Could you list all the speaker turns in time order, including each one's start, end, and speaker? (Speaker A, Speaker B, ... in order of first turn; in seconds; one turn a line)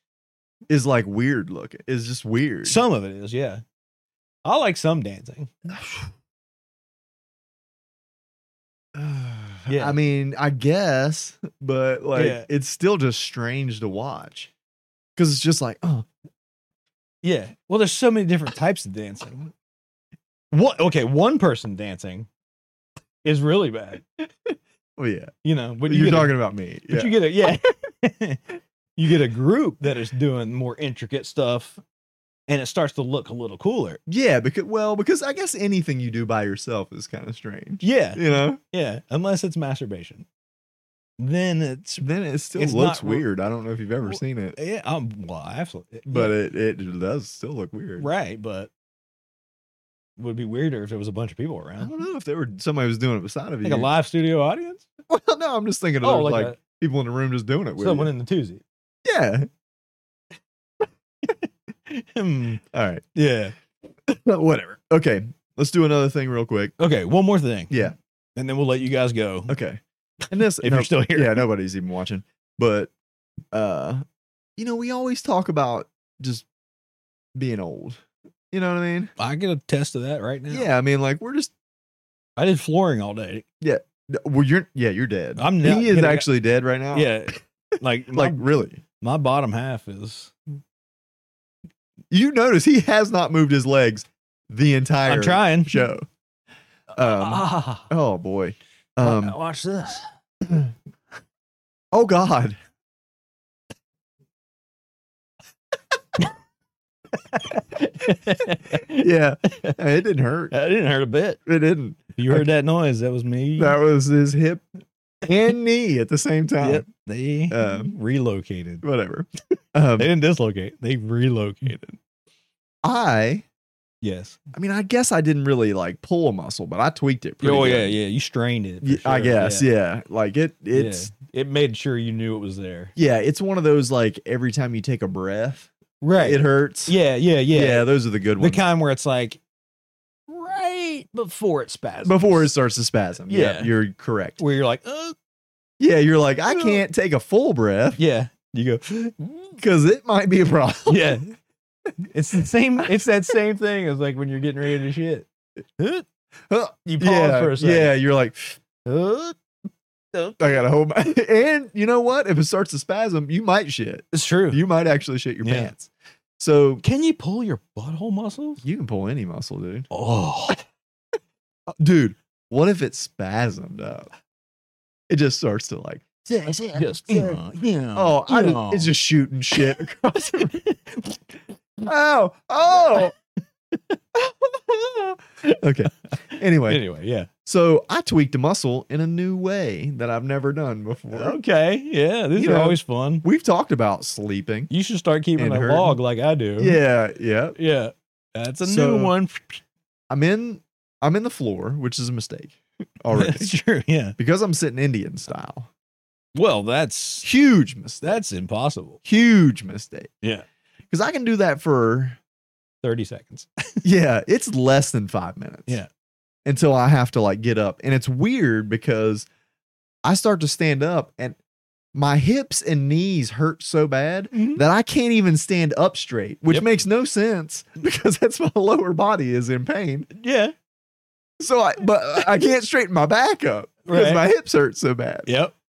Speaker A: 0.7-2.8
Speaker B: 2.6-3.6
Speaker B: 4.4-5.5
Speaker A: 5.8-6.1
Speaker A: 8.9-14.5
Speaker B: 9.7-9.9
Speaker B: 12.1-12.5
Speaker A: 15.2-16.1
Speaker B: 17.2-19.5
Speaker B: 20.5-22.3
Speaker B: 23.2-24.1
Speaker A: 25.0-25.3
Speaker B: 25.4-26.3
Speaker A: 25.9-27.1
Speaker B: 26.9-31.8
Speaker B: 32.5-34.0
Speaker A: 34.1-38.6
Speaker B: 37.8-40.3
Speaker B: 41.2-43.2
Speaker A: 42.0-44.6
Speaker B: 44.1-46.4
Speaker A: 46.1-48.1
Speaker B: 48.0-48.7
Speaker B: 50.2-51.9
Speaker A: 51.8-53.9
Speaker B: 53.6-54.9
Speaker A: 55.1-58.1
Speaker B: 56.0-56.6
Speaker B: 57.8-58.6
Speaker A: 59.0-59.5
Speaker B: 61.9-62.6
Speaker A: 62.7-63.0
Speaker B: 63.1-63.5
Speaker A: 64.1-66.7
Speaker B: 66.8-69.6
Speaker A: 67.7-67.9
Speaker A: 69.5-72.9
Speaker B: 70.6-71.5
Speaker A: 73.5-74.0
Speaker A: 74.6-76.5
Speaker A: 77.3-79.1
Speaker B: 79.2-80.7
Speaker A: 80.5-81.5
Speaker B: 82.4-83.4
Speaker A: 83.6-87.1
Speaker B: 85.4-86.3
Speaker B: 86.9-88.4
Speaker A: 88.1-88.8
Speaker B: 89.0-90.3
Speaker A: 92.1-96.1
Speaker B: 95.0-95.8
Speaker B: 96.9-97.9
Speaker A: 97.0-99.4
Speaker B: 99.0-100.1
Speaker A: 101.9-102.6
Speaker B: 107.1-109.8
Speaker A: 108.9-110.5
Speaker B: 110.5-111.4
Speaker A: 111.5-112.5
Speaker B: 112.2-113.8
Speaker A: 113.6-114.6
Speaker A: 115.2-116.9
Speaker B: 116.6-118.8
Speaker A: 117.5-117.9
Speaker A: 118.8-120.1
Speaker B: 120.0-122.0
Speaker A: 122.8-123.4
Speaker B: 124.0-124.4
Speaker A: 124.5-127.9
Speaker B: 127.4-129.7
Speaker A: 128.8-131.1
Speaker B: 130.7-132.9
Speaker A: 132.9-136.9
Speaker B: 136.0-137.9
Speaker A: 137.5-138.6
Speaker B: 138.4-139.4
Speaker B: 140.3-142.5
Speaker A: 142.1-144.4
Speaker B: 143.3-143.7
Speaker B: 144.4-145.1
Speaker A: 145.8-148.0
Speaker B: 146.5-146.8
Speaker B: 148.0-149.6
Speaker A: 149.6-151.2
Speaker B: 150.9-151.3
Speaker B: 152.1-156.1
Speaker A: 156.5-158.6
Speaker B: 156.9-157.9
Speaker B: 158.8-159.4
Speaker B: 160.1-160.4
Speaker A: 160.4-166.8
Speaker B: 164.1-164.6
Speaker B: 165.4-165.7
Speaker B: 166.8-168.6
Speaker A: 168.6-169.9
Speaker B: 169.9-170.6
Speaker A: 171.8-174.1
Speaker A: 175.1-177.4
Speaker B: 176.7-178.9
Speaker A: 177.9-180.6
Speaker B: 180.4-181.2
Speaker A: 181.8-183.1
Speaker B: 182.7-183.1
Speaker A: 184.2-186.8
Speaker B: 185.4-187.3
Speaker A: 187.4-191.4
Speaker B: 191.1-193.3
Speaker A: 192.4-194.7
Speaker B: 194.7-196.8
Speaker A: 195.4-196.0
Speaker A: 196.6-197.6
Speaker B: 197.6-199.6
Speaker A: 198.6-199.1
Speaker A: 200.1-203.5
Speaker B: 203.1-204.2
Speaker A: 204.2-205.7
Speaker B: 206.3-207.3
Speaker A: 207.2-208.2
Speaker B: 208.0-209.0
Speaker A: 209.0-210.1
Speaker A: 210.9-212.2
Speaker B: 212.8-213.8
Speaker A: 213.8-215.8
Speaker A: 216.4-219.3
Speaker A: 220.0-221.4
Speaker A: 221.9-230.1
Speaker B: 224.3-224.6
Speaker B: 230.1-230.5
Speaker A: 231.4-235.3
Speaker B: 233.9-234.2
Speaker B: 235.3-235.5